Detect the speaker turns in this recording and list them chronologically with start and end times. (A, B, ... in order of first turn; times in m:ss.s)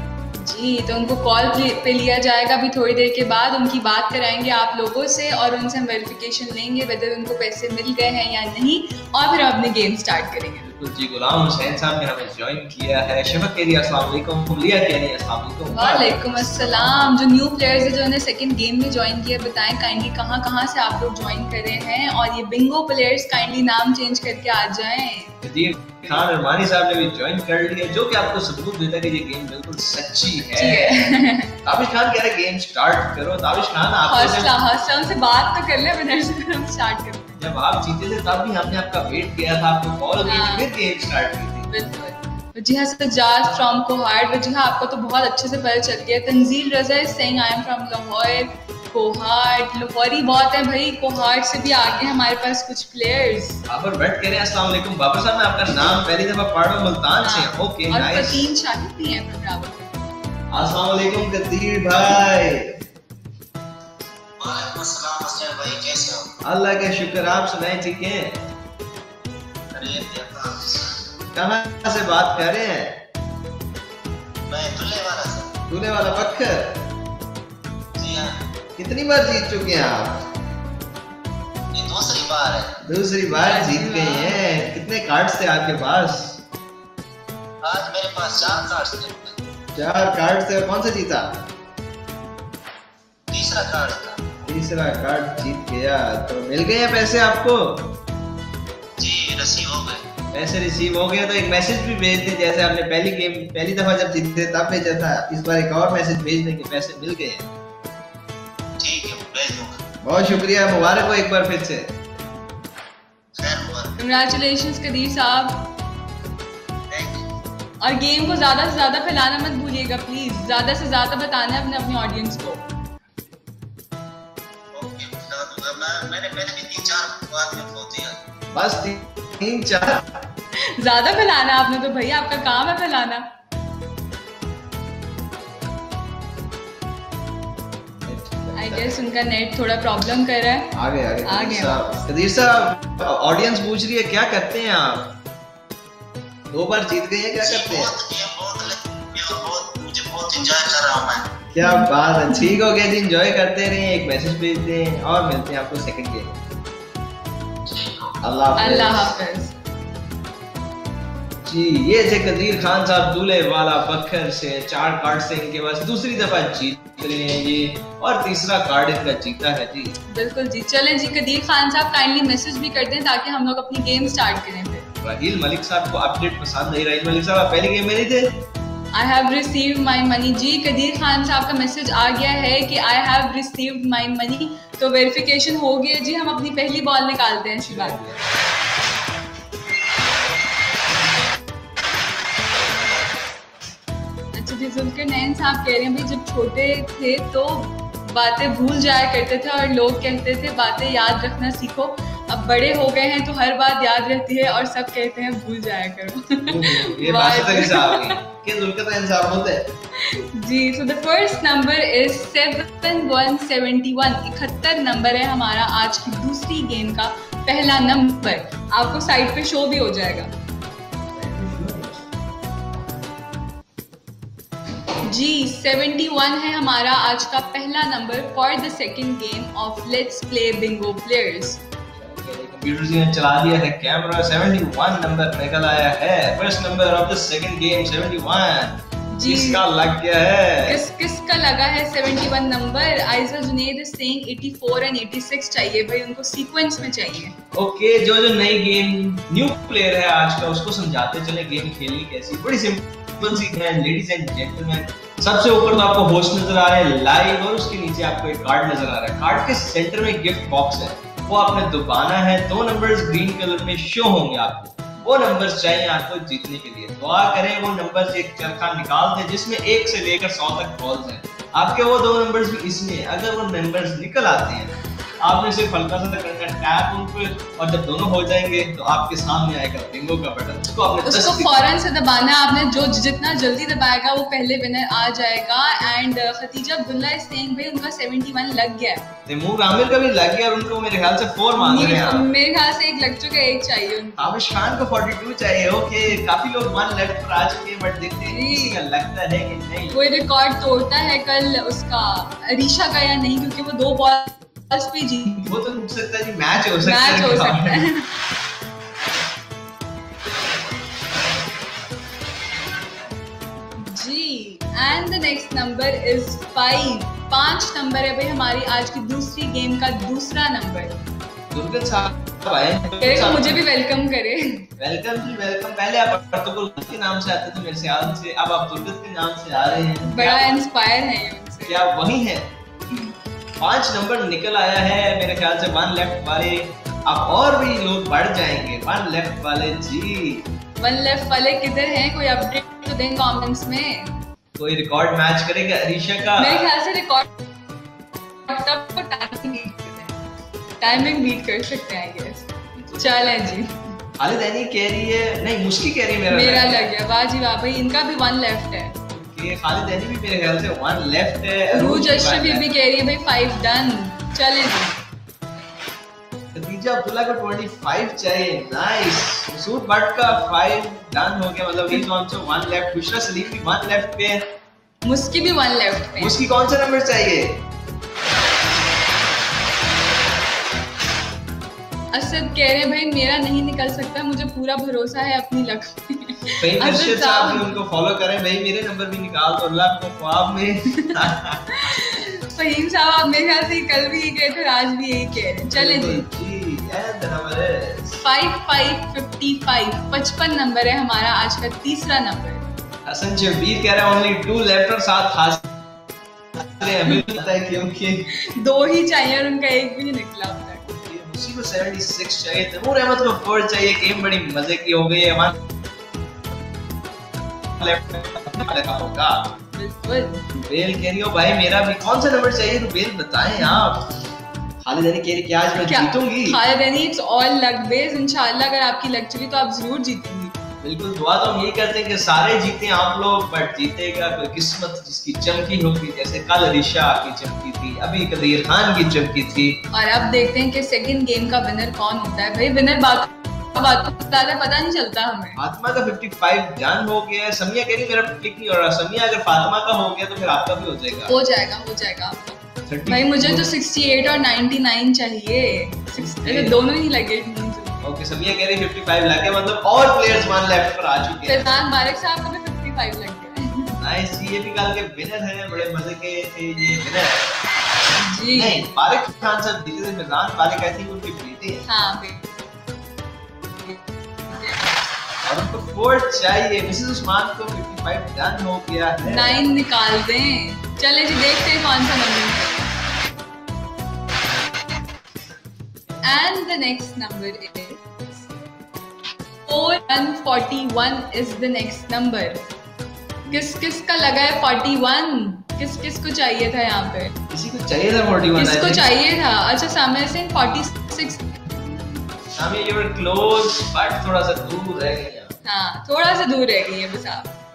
0:00.4-0:10.7 A
0:10.6-0:17.1 B
0:15.7-0:25.4 A
0:25.4-0:34.5 B
0:30.5-0:31.5 A
0:34.1-0:37.4 A
0:37.4-0:41.7 B
0:40.2-0:40.7 A
0:41.7-0:53.6 A
0:53.7-0:58.5 B
0:57.2-0:59.9 A
1:00.5-1:02.8 B
1:04.4-1:06.3 C
1:06.4-1:08.4 B
1:09.7-1:11.0 C
1:11.3-1:13.0 B
1:14.5-1:15.6 C
1:15.7-1:16.8 B
1:18.0-1:18.4 C
1:18.8-1:20.2 B
1:21.7-1:22.8 C
1:22.8-1:26.4 B
1:23.3-1:24.4 A
1:27.6-1:29.4 C
1:29.7-1:31.4 B
1:33.3-1:34.3 C
1:34.4-1:38.0 B
1:39.0-1:40.0 C
1:40.3-1:47.5 B
1:48.8-1:49.8 C
1:50.0-1:52.0 B
1:53.3-1:53.9 C
1:54.0-1:55.7 A
1:56.9-1:57.3 C
1:57.8-2:02.6 A
2:04.7-2:08.2 C
2:08.5-2:10.2 B
2:10.6-2:13.3 A
2:18.0-2:19.0 B
2:18.5-2:22.0 A
2:20.7-2:25.2 B
2:26.5-2:28.0 B
2:27.4-2:31.3 C
2:31.5-2:36.4 B
2:31.6-2:32.5 A
2:38.2-2:39.1 B
2:38.6-2:39.6 A
2:41.4-2:49.9 B
2:50.1-2:54.9 A
2:55.0-2:58.4 B
2:58.9-3:08.0 A
3:07.6-3:08.2 B
3:14.3-3:28.2 A
3:26.4-3:29.7 B
3:29.9-3:40.3 A
3:41.2-3:42.0 B
3:45.0-3:51.6 A
3:51.9-4:00.8 B
3:59.1-3:59.6 A
4:00.6-4:07.4 A
4:07.5-4:41.7 B
4:41.0-4:49.1 A
4:49.2-4:52.3 B
4:51.6-4:54.4 A
4:54.2-5:00.0 B
4:58.3-4:58.8 A
4:59.9-5:05.5 A
5:05.4-5:07.8 B
5:06.8-5:08.1 A
5:13.8-5:21.0 A
5:21.5-5:23.6 B
5:23.0-5:24.7 A
5:24.8-5:30.5 B
5:30.0-5:31.8 A
5:31.6-5:32.5 B
5:33.6-5:40.5 B
5:40.8-5:44.1 A
5:44.5-5:46.7 B
5:46.2-5:47.3 A
5:48.4-5:50.2 A
5:50.8-5:53.9 A
5:50.8-5:51.1 B
5:52.7-5:53.4 B
5:54.2-5:56.9 B
5:56.3-5:59.0 A
5:59.1-6:02.7 B
6:01.7-6:05.0 A
6:06.5-6:14.5 B
6:15.0-6:16.4 A
6:16.2-6:17.6 B
6:22.1-6:27.7 A
6:26.6-6:31.6 B
6:31.7-6:36.2 A
6:35.7-6:38.2 B
6:38.2-6:42.7 A
6:43.0-6:45.6 B
6:46.5-6:48.3 B
6:48.4-6:50.8 A
6:50.8-6:55.6 B
6:57.8-6:59.5 B
6:59.7-7:00.4 A
7:00.5-7:04.1 B
7:04.8-7:06.6 B
7:05.7-7:10.5 A
7:10.8-7:19.8 B
7:19.9-7:25.6 A
7:25.6-7:31.3 B
7:31.3-7:38.0 A
7:32.9-7:33.7 B
7:36.2-7:36.8 B
7:38.0-7:41.8 B
7:41.4-7:44.0 A
7:44.0-7:47.6 B
7:48.2-7:48.8 A
7:48.5-7:51.8 B
7:51.8-7:52.5 A
7:54.5-7:54.9 A
7:55.4-7:59.6 B
7:59.2-8:02.9 A
8:06.2-8:08.3 A
8:09.6-8:12.6 A
8:13.4-8:13.7 B
8:13.5-8:17.3 A
8:17.5-8:19.1 B
8:18.6-8:21.7 A
8:21.9-8:25.6 B
8:25.6-8:27.5 A